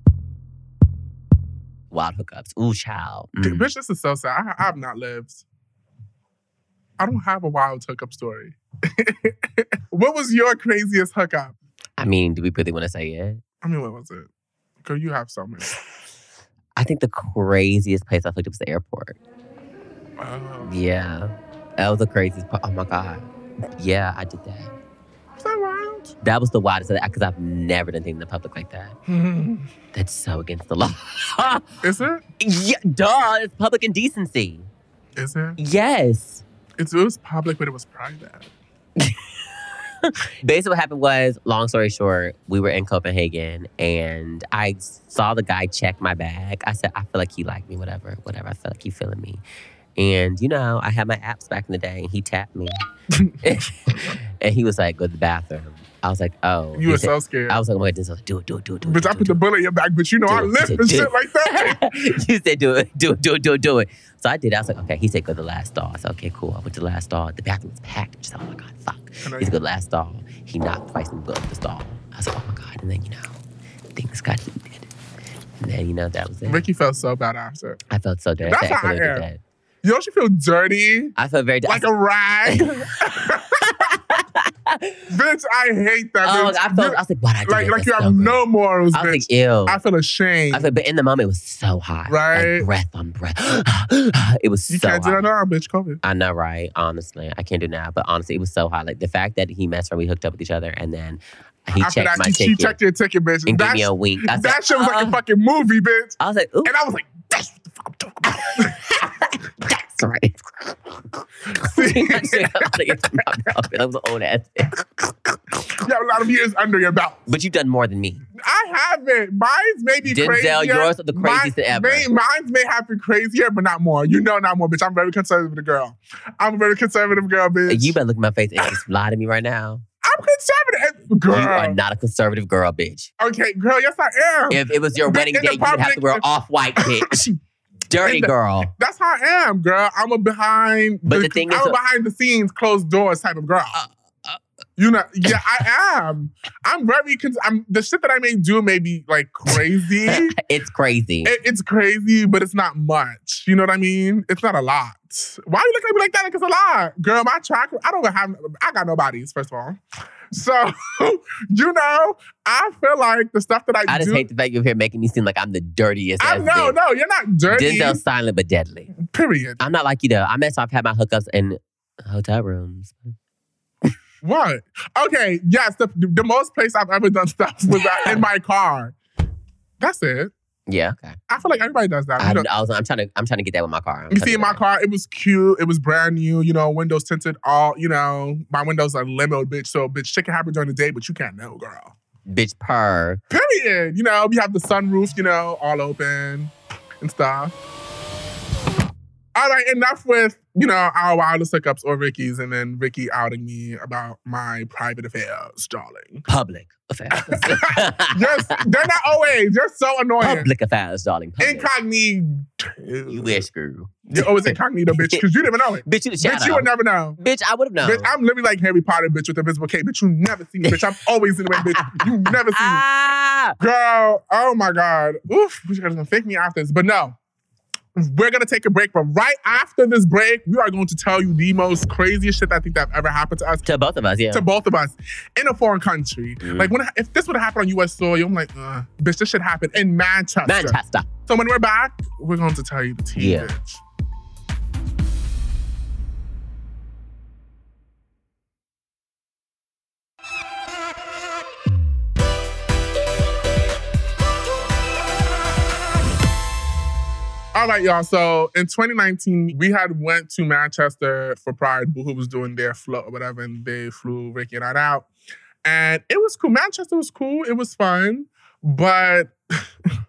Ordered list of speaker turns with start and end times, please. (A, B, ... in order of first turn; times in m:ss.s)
0:01.9-0:03.7 A
0:03.4-0:05.4 B
0:07.0-0:11.6 B
0:12.0-0:13.4 A
0:13.6-0:14.3 B
0:14.8-0:15.7 B
0:16.8-0:19.2 A
0:20.2-0:20.7 B
0:20.6-0:23.2 A
0:23.8-0:24.7 A
0:25.4-0:26.1 B
0:26.2-0:29.0 A
0:29.1-0:29.7 B
0:29.9-0:31.7 A
0:31.8-0:32.2 B
0:32.4-0:34.7 A
0:35.2-0:35.6 B
0:35.6-0:36.4 A
0:36.8-0:38.5 B
0:40.0-0:49.4 A
0:50.0-0:52.8 A
0:53.1-0:53.4 B
0:53.4-0:59.4 A
0:56.8-0:57.6 B
0:58.8-1:01.8 B
1:00.2-1:13.4 A
1:09.2-1:09.6 B
1:13.9-1:14.9 A
1:15.6-1:16.6 A
1:16.5-1:17.8 B
1:17.9-1:19.4 A
1:18.4-1:19.3 B
1:19.8-1:21.1 B
1:21.2-1:21.9 A
1:21.6-1:23.9 B
1:22.4-1:22.8 A
1:23.6-1:25.0 A
1:25.1-1:30.7 B
1:26.2-1:28.4 A
1:28.9-1:29.8 A
1:30.5-1:35.2 A
1:32.1-1:32.7 B
1:34.7-1:36.0 B
1:36.0-1:42.8 A
1:41.8-1:48.8 B
1:43.4-1:45.2 A
1:46.2-1:46.7 A
1:48.3-1:55.4 A
1:51.5-1:53.2 B
1:55.7-1:57.2 B
1:57.3-1:58.2 A
1:58.4-2:08.0 B
2:00.0-2:02.1 A
2:07.7-2:09.8 A
2:10.0-2:11.8 B
2:11.3-2:13.1 A
2:13.2-2:17.3 B
2:14.5-2:17.3 A
2:17.9-2:18.7 A
2:18.0-2:23.8 B
2:21.0-2:21.8 A
2:23.7-2:24.4 A
2:24.8-2:30.3 B
2:30.0-2:31.3 A
2:31.2-2:44.3 B
2:43.9-2:46.8 A
2:46.2-2:48.0 B
2:47.5-2:48.9 A
2:49.0-2:49.6 B
2:49.6-2:53.1 A
2:54.2-2:58.9 B
2:57.7-2:58.2 A
2:59.8-3:00.3 B
3:00.7-3:01.2 A
3:01.3-3:02.5 B
3:02.2-3:04.6 A
3:04.1-3:11.9 B
3:12.3-3:13.2 A
3:13.3-3:17.6 B
3:19.3-3:26.2 B
3:26.3-3:28.9 A
3:27.3-3:30.5 B
3:30.2-3:31.7 A
3:31.4-3:33.4 B
3:33.1-3:35.2 A
3:34.1-3:37.2 B
3:35.8-3:38.1 A
3:37.8-3:42.8 B
3:40.6-3:40.9 A
3:41.5-3:43.6 A
3:43.6-3:47.2 B
3:48.0-3:53.7 B
3:53.6-3:54.4 A
3:54.3-4:03.8 B
3:56.4-3:56.7 A
4:00.4-4:01.1 A
4:03.2-4:03.5 A
4:17.5-4:25.1 B
4:25.6-4:29.9 B